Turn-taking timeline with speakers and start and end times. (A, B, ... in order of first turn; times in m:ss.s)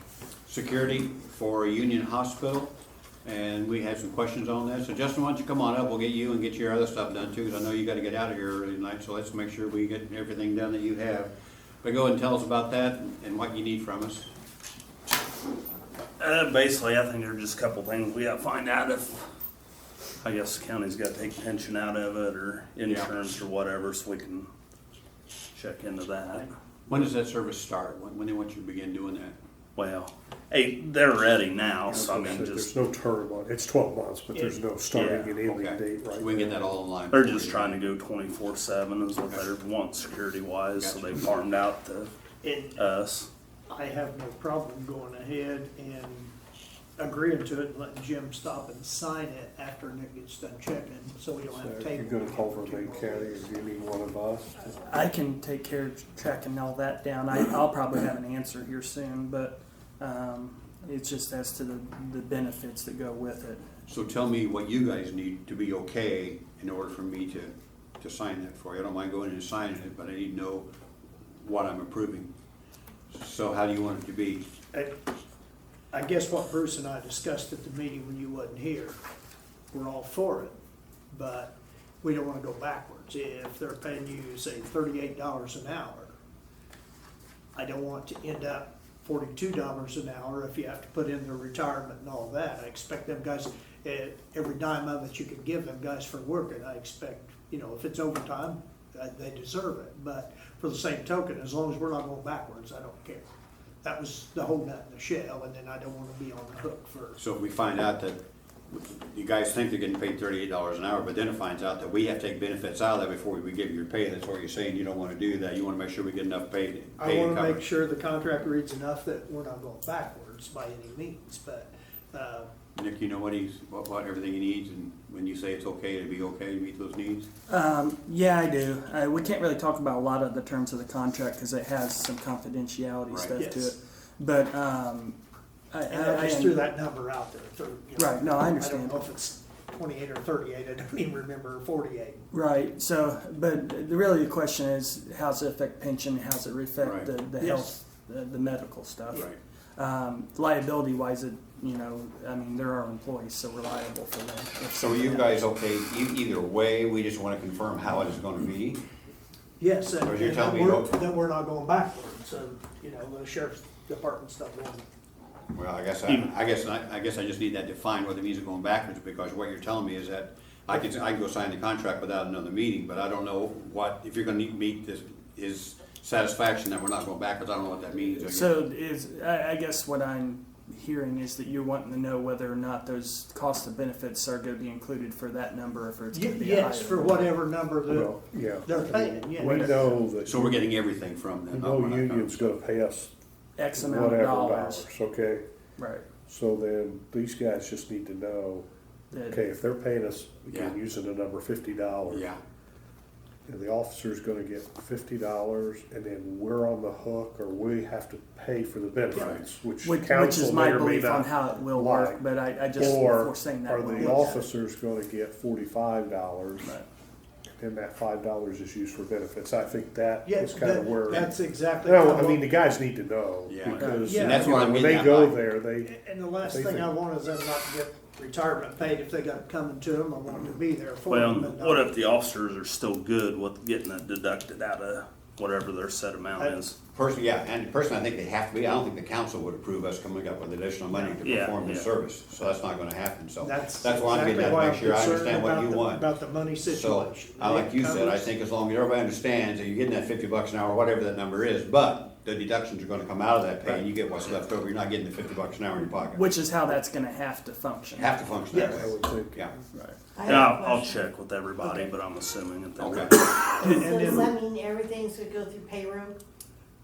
0:00.4-0:02.7 A
0:03.2-0:14.3 A
0:16.2-0:19.2 B
0:20.2-0:24.5 B
0:25.5-0:26.5 B
0:26.9-0:29.4 A
0:29.8-0:32.7 B
0:31.9-0:36.7 C
0:34.3-0:34.6 D
0:34.9-0:35.4 B
0:35.4-0:37.8 A
0:37.1-0:42.1 B
0:40.8-0:41.1 A
0:42.4-0:42.8 D
0:42.7-0:43.3 B
0:43.7-0:46.3 D
0:47.0-0:53.4 D
0:51.5-0:54.8 C
0:54.8-1:03.6 E
1:03.9-1:10.7 A
1:11.4-1:12.3 A
1:13.1-1:14.5 A
1:15.9-1:19.0 D
1:19.7-1:20.5 D
1:21.1-1:26.1 D
1:27.5-1:43.2 D
1:43.8-1:47.2 D
1:47.2-1:57.6 A
1:57.0-2:02.5 D
2:02.7-2:07.3 A
2:07.5-2:15.2 E
2:13.1-2:13.4 A
2:13.4-2:13.7 D
2:15.7-2:16.8 E
2:15.9-2:22.3 D
2:17.9-2:19.0 E
2:22.3-2:35.5 E
2:26.8-2:27.1 A
2:27.4-2:27.7 D
2:29.1-2:29.4 A
2:34.8-2:38.8 A
2:39.6-2:44.8 D
2:40.0-2:40.9 A
2:45.5-2:58.6 A
2:58.2-3:07.3 E
3:06.1-3:09.9 D
3:07.9-3:10.7 C
3:09.5-3:12.5 A
3:11.5-3:13.1 C
3:13.6-3:14.9 E
3:13.7-3:15.4 C
3:15.8-3:16.0 E
3:16.2-3:18.7 C
3:19.1-3:19.4 E
3:19.3-3:22.3 C
3:22.1-3:22.4 A
3:23.4-3:36.8 C
3:29.1-3:29.4 A
3:29.8-3:34.4 E
3:32.8-3:33.1 D
3:33.9-3:34.4 D
3:37.6-3:45.9 C
3:40.2-3:42.5 D
3:43.5-3:45.4 A
3:43.6-3:43.9 B
3:44.0-3:44.7 D
3:45.8-3:52.0 D
3:46.4-3:46.9 C
3:51.1-3:56.8 B
3:56.9-4:06.0 A
4:01.2-4:01.9 B
4:03.4-4:08.3 D
4:06.6-4:16.2 A
4:16.1-4:18.3 E
4:17.9-4:19.5 A
4:18.5-4:18.8 D
4:18.5-4:19.5 C
4:19.7-4:20.0 E
4:20.1-4:21.0 F
4:20.2-4:23.9 B
4:21.6-4:21.9 D
4:22.8-4:23.1 A
4:23.6-4:24.4 D
4:23.7-4:26.2 F